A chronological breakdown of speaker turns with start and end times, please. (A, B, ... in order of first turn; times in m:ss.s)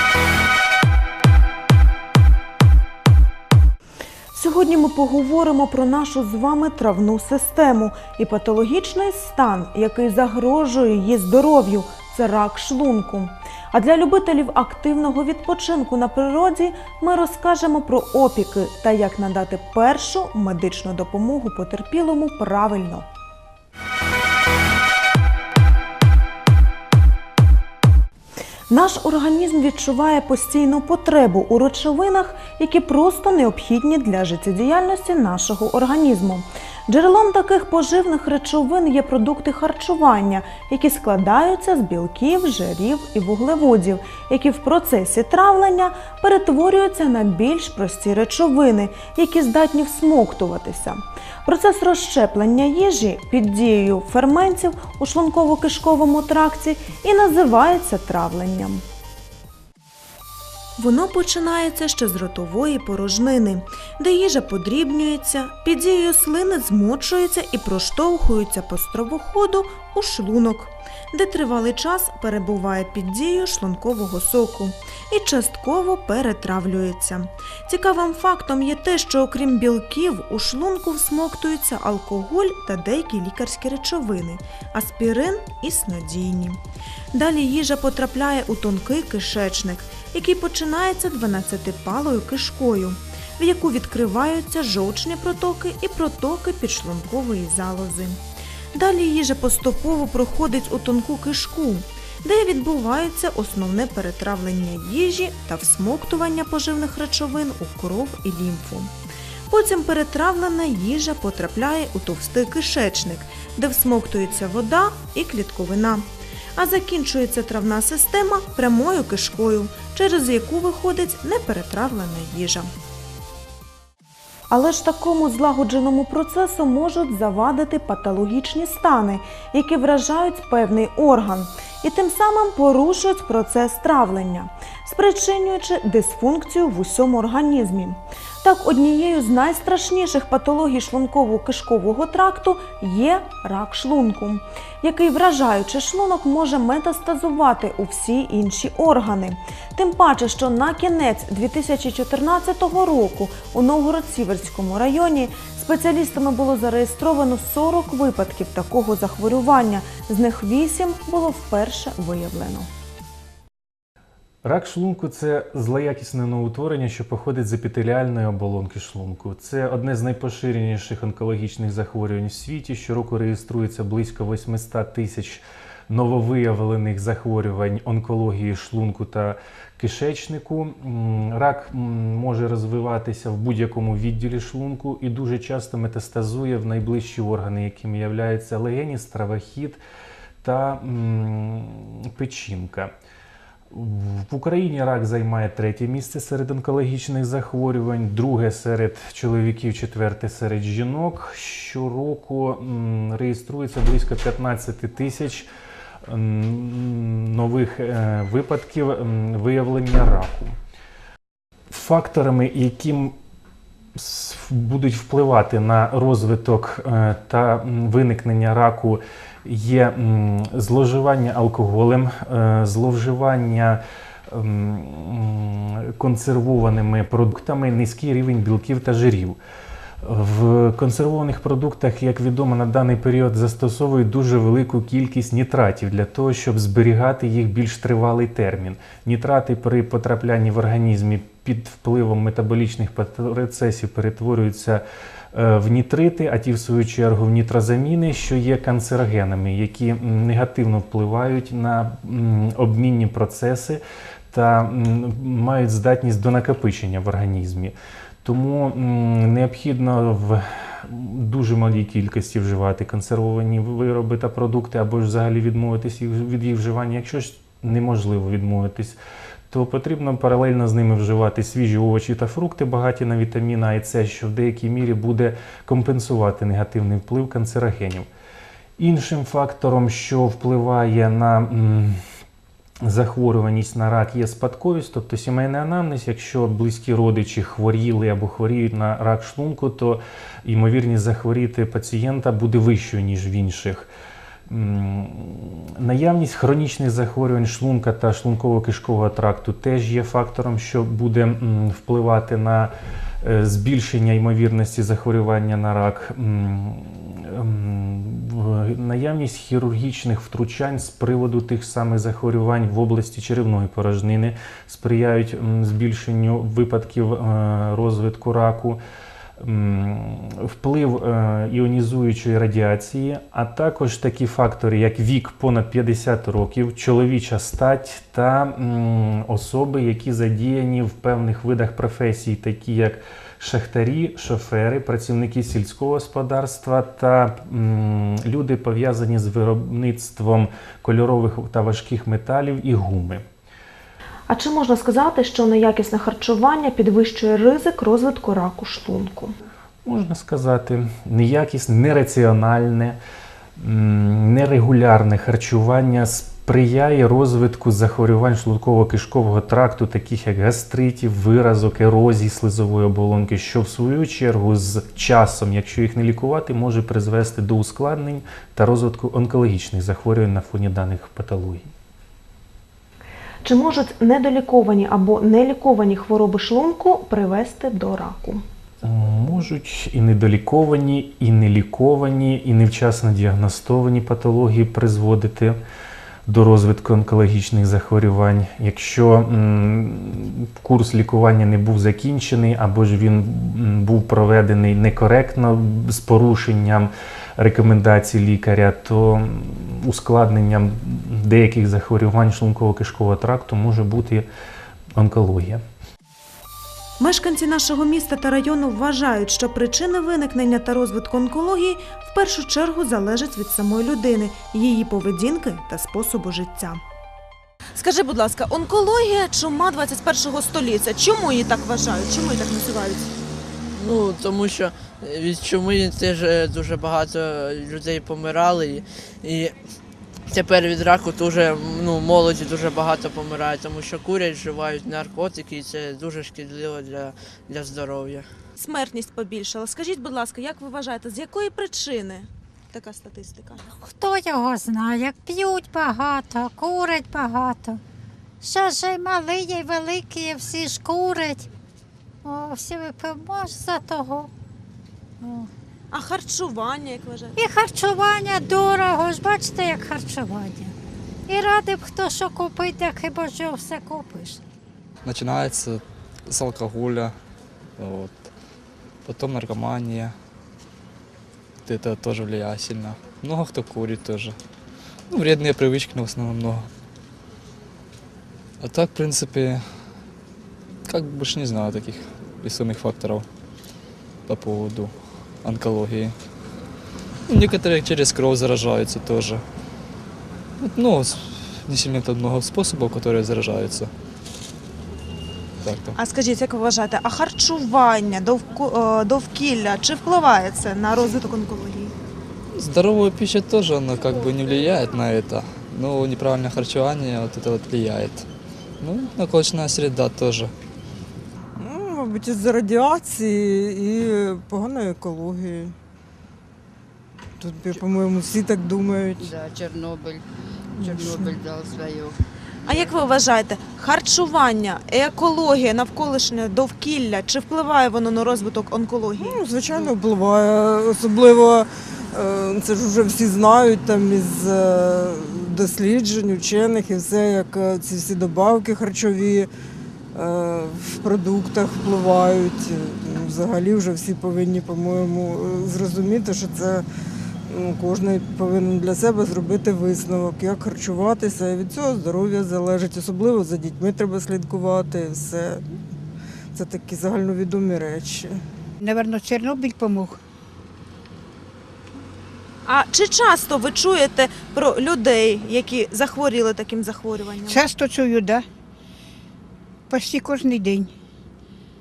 0:04.3-0:23.0 A
0:28.7-0:58.8 A
1:00.8-1:26.6 A
1:27.1-1:38.2 A
1:38.7-1:48.9 A
1:49.5-2:02.7 A
2:04.5-2:42.7 A
2:44.4-3:09.8 B
3:10.4-3:12.9 B
3:13.7-3:25.5 B
3:26.0-3:30.6 B
3:31.7-3:33.2 B
3:33.9-3:49.4 B
3:50.0-4:29.0 B
4:29.5-4:38.1 B
4:38.8-4:42.0 B
4:42.8-4:53.9 B
4:54.5-5:18.8 B
5:19.4-5:43.2 B
5:44.3-5:49.3 A
5:49.8-5:53.0 B
5:53.6-6:11.7 B
6:13.4-6:18.4 A
6:18.8-6:25.6 B
6:26.2-6:44.3 B
6:44.9-6:45.6 B
6:47.0-6:56.8 A
6:57.7-7:03.1 A
7:03.7-7:09.6 C
7:10.3-7:18.3 C
7:18.6-7:23.6 A
7:23.8-7:27.8 D
7:28.4-7:31.5 D
7:32.2-7:34.3 D
7:35.2-7:35.5 D
7:35.9-7:37.4 A
7:37.4-7:40.7 D
7:41.3-7:44.4 D
7:45.0-7:47.1 E
7:47.8-7:48.3 E
7:49.0-7:50.1 E
7:51.6-7:54.4 E
7:55.1-7:56.7 E
7:58.6-7:59.6 E
8:00.8-8:03.2 E
8:04.3-8:04.9 E
8:05.4-8:06.2 E
8:07.3-8:09.4 E
8:10.6-8:13.9 E
8:15.6-8:15.9 E
8:16.0-8:21.9 A
8:22.6-8:28.2 E
8:28.8-8:30.5 E
8:31.6-8:35.7 F
8:37.4-8:39.3 F
8:39.2-8:40.2 G
8:40.7-8:42.2 G
8:40.8-8:41.4 F
8:42.6-8:49.4 A
8:49.2-8:59.5 F
9:00.1-9:06.8 F
9:07.5-9:15.6 F
9:16.5-9:18.4 F
9:18.8-9:20.2 H
9:22.6-9:27.6 A
9:27.5-9:28.4 H
9:29.9-9:30.9 H